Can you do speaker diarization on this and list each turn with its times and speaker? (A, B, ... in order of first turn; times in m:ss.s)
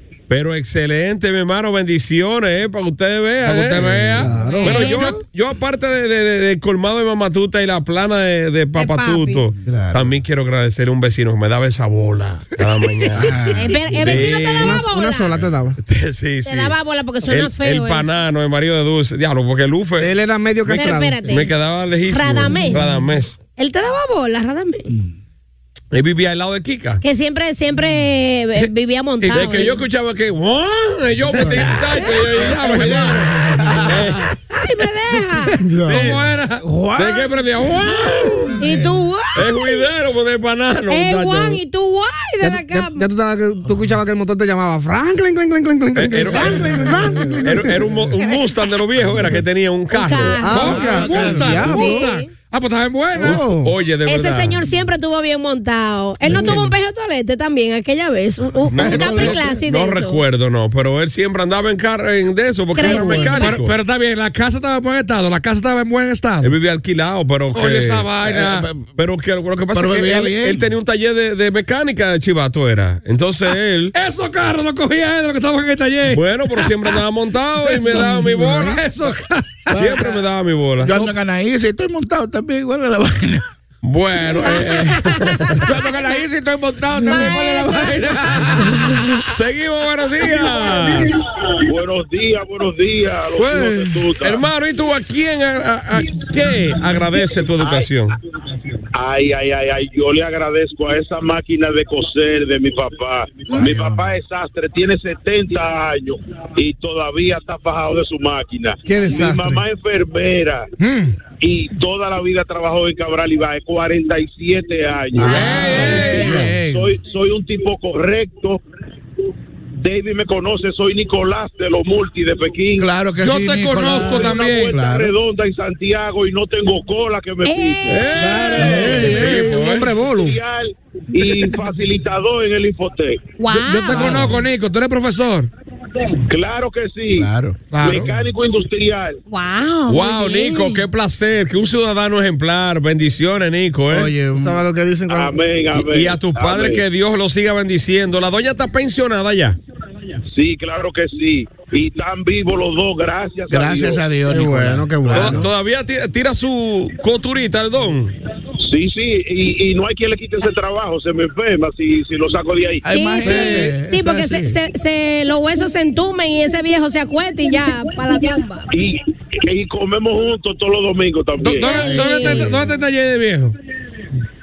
0:00.3-0:13.4 A
0:03.4-0:04.8 B
0:04.2-0:04.9 C
0:04.4-0:05.2 D
0:08.8-0:09.4 D
0:09.6-0:10.1 C
0:13.2-0:14.0 E
0:13.6-0:15.4 D
0:13.9-0:14.8 A
0:14.6-0:15.8 C
0:15.8-0:16.8 A
0:16.4-0:18.1 D
0:17.3-0:20.1 A
0:20.0-0:21.2 C
0:20.6-0:23.4 A
0:20.8-0:21.5 D
0:22.1-0:22.8 D
0:23.6-0:24.9 D
0:25.9-0:27.0 A
0:27.0-0:29.7 D
0:29.2-0:29.7 B
0:29.3-0:33.3 A
0:31.4-0:31.6 C
0:32.3-0:34.2 E
0:33.3-0:33.8 C
0:33.8-0:34.3 A
0:34.5-0:35.6 D
0:35.6-0:37.3 C
0:35.9-0:38.6 A
0:35.9-0:36.5 B
0:38.6-0:39.8 D
0:39.4-0:41.6 A
0:40.9-0:43.1 D
0:42.4-0:47.9 C
0:46.0-0:46.9 A
0:46.3-0:47.5 D
0:47.4-0:50.4 A
0:49.9-0:52.3 D
0:50.4-0:52.1 C
0:50.5-0:53.5 B
0:50.6-0:51.8 E
0:53.2-0:53.7 C
0:53.3-0:54.6 A
0:54.1-1:00.2 D
0:56.3-0:56.7 C
0:58.7-1:03.7 A
0:58.8-0:59.4 E
1:02.8-1:03.6 D
1:02.8-1:06.5 B
1:02.9-1:03.3 C
1:06.4-1:08.1 A
1:07.6-1:08.6 B
1:08.2-1:08.8 E
1:08.8-1:13.9 A
1:09.7-1:10.6 E
1:13.9-1:16.9 B
1:16.1-1:18.8 A
1:17.6-1:19.7 B
1:19.7-1:20.2 E
1:19.8-1:20.9 A
1:20.8-1:23.4 E
1:23.8-1:25.6 A
1:24.4-1:25.6 D
1:25.6-1:28.9 E
1:27.1-1:28.0 D
1:29.3-1:31.2 A
1:31.7-1:34.4 F
1:33.4-1:33.9 B
1:34.2-1:38.2 A
1:38.9-1:50.7 F
1:43.5-1:44.1 C
1:48.9-1:49.6 C
1:50.8-1:51.1 B
1:51.4-1:58.6 F
1:55.2-1:56.9 E
1:55.2-1:56.3 B
1:55.2-1:56.5 D
1:59.8-2:02.9 F
2:02.8-2:05.1 E
2:03.2-2:04.8 B
2:03.9-2:08.0 F
2:07.4-2:08.0 D
2:07.9-2:09.9 A
2:08.2-2:09.6 B
2:08.2-2:10.4 C
2:09.8-2:13.2 F
2:13.4-2:14.3 D
2:13.5-2:15.5 B
2:14.0-2:14.4 E
2:16.2-2:17.3 F
2:17.2-2:17.6 E
2:17.7-2:18.1 B
2:17.8-2:19.2 F
2:19.3-2:20.8 D
2:19.9-2:24.1 A
2:23.9-2:24.6 E
2:24.3-2:25.4 C
2:25.1-2:26.8 F
2:25.8-2:29.6 A
2:30.3-2:34.0 F
2:33.5-2:35.5 E
2:34.2-2:35.5 C
2:35.1-2:38.1 A
2:38.7-2:42.8 F
2:42.8-2:44.6 E
2:42.9-2:48.7 D
2:43.2-2:43.7 B
2:48.7-2:51.8 F
2:51.4-2:53.6 B
2:51.6-2:52.5 D
2:51.8-2:52.6 E